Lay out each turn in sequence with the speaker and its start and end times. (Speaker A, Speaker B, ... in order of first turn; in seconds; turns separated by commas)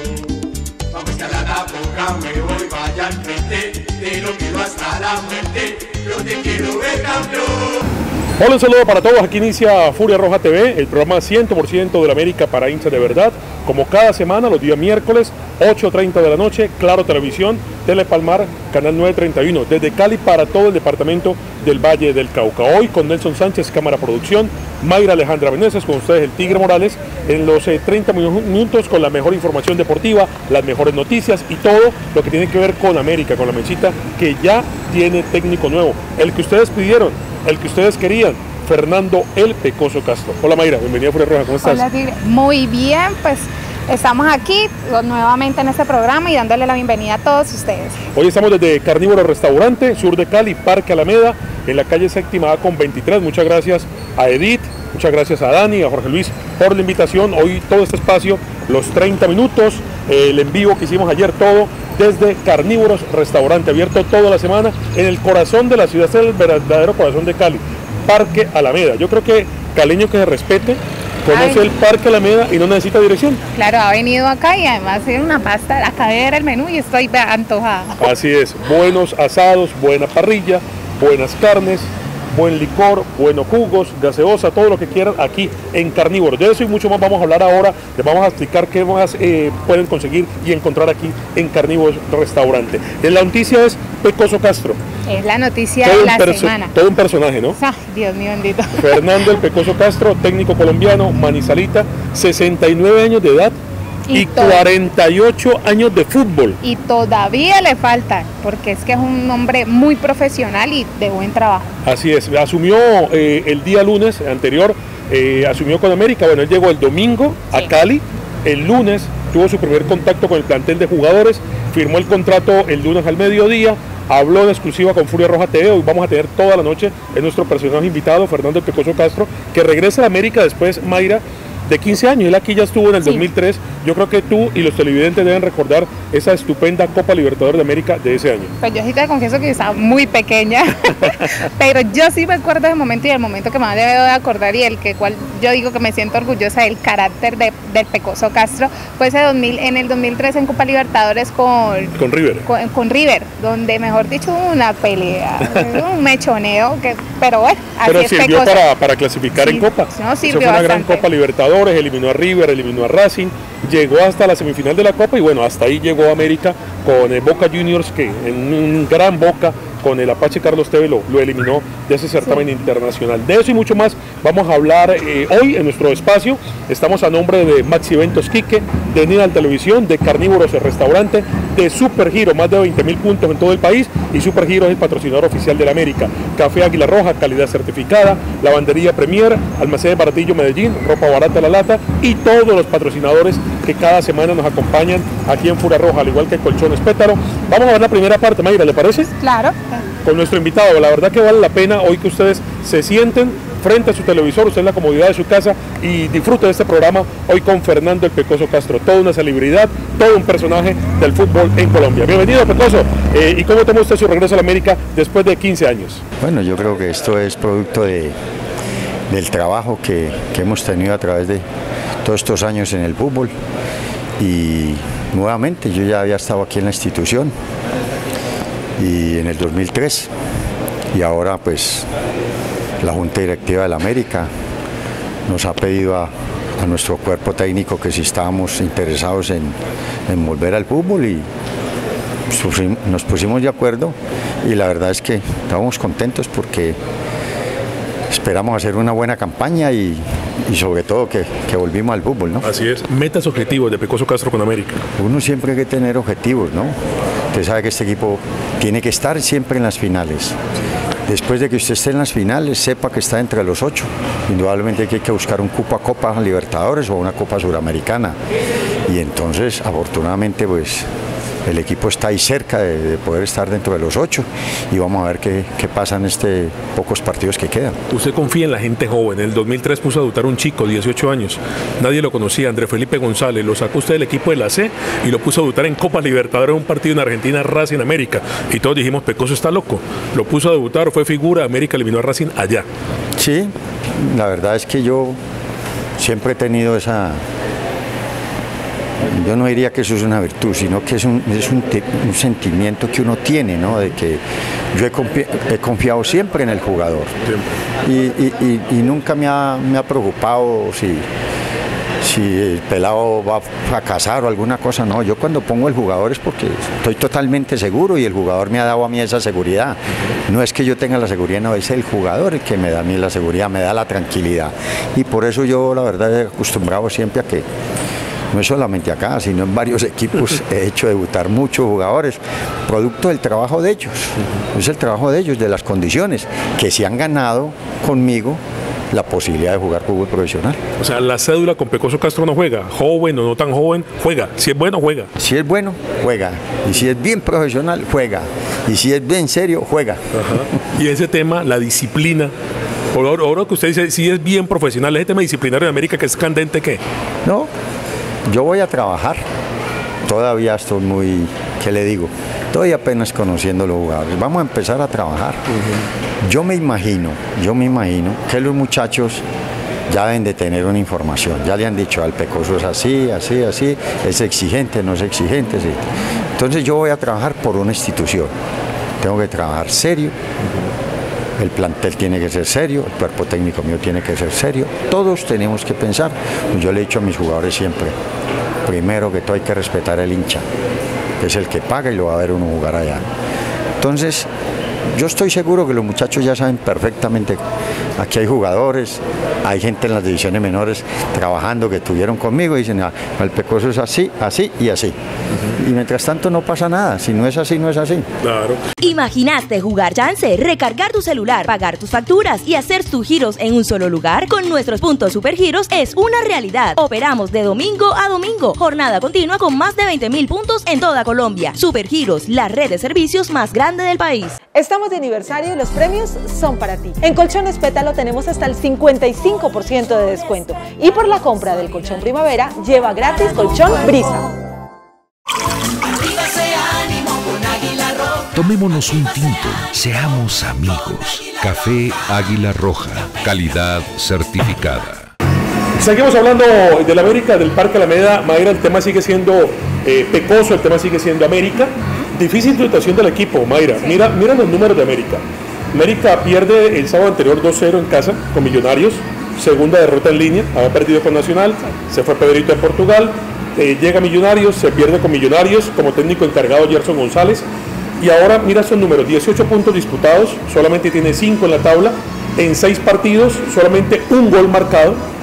Speaker A: 0.9-7.8, Speaker B: 8.4-41.9, Speaker C: 41.6-48.0, Speaker B: 48.1-73.4, Speaker C: 71.3-71.7, Speaker C: 73.5-78.0, Speaker B: 78.0-94.8, Speaker C: 95.1-96.7, Speaker B: 95.8-97.6, Speaker C: 97.6-99.2, Speaker B: 98.8-103.6, Speaker C: 104.1-104.7, Speaker B: 104.1-106.6, Speaker C: 106.6-111.7, Speaker B: 111.8-138.5, Speaker C: 138.6-151.9, Speaker B: 151.9-152.4, Speaker C: 152.4-158.7, Speaker B: 155.5-155.8, Speaker B: 157.8-199.1, Speaker C: 159.3-161.1, Speaker C: 199.2-199.8, Speaker B: 200.0-216.0, Speaker D: 216.2-218.2, Speaker D: 219.1-221.4, Speaker D: 222.0-223.3, Speaker D: 224.2-227.3, Speaker D: 228.8-230.1, Speaker D: 230.9-231.9, Speaker D: 232.8-234.3, Speaker D: 235.3-241.3, Speaker D: 242.3-246.8, Speaker D: 248.1-252.5, Speaker B: 252.4-254.8, Speaker D: 255.0-256.8, Speaker D: 257.3-260.4, Speaker D: 261.1-268.2, Speaker D: 268.9-270.9, Speaker D: 271.4-277.8, Speaker B: 277.9-292.7, Speaker D: 293.2-295.2, Speaker D: 296.0-297.2, Speaker D: 299.0-304.2, Speaker D: 304.7-307.1, Speaker D: 307.9-311.1, Speaker D: 312.0-327.5, Speaker D: 328.3-340.6, Speaker B: 340.8-345.1, Speaker D: 345.2-350.0, Speaker B: 350.1-352.3, Speaker B: 352.9-356.8, Speaker D: 357.2-357.5, Speaker D: 358.3-359.2, Speaker D: 360.0-365.4, Speaker B: 365.6-365.8, Speaker D: 366.2-369.2, Speaker D: 369.9-375.8, Speaker D: 376.4-378.3, Speaker D: 379.0-380.1, Speaker D: 381.4-388.0, Speaker D: 388.6-390.4, Speaker D: 391.2-393.1, Speaker D: 393.8-394.3, Speaker D: 394.9-397.4, Speaker D: 398.0-405.0, Speaker D: 405.6-408.1, Speaker B: 408.2-408.6, Speaker E: 408.8-424.4, Speaker F: 424.5-434.3, Speaker G: 438.3-445.1, Speaker B: 445.8-467.4, Speaker B: 468.0-475.0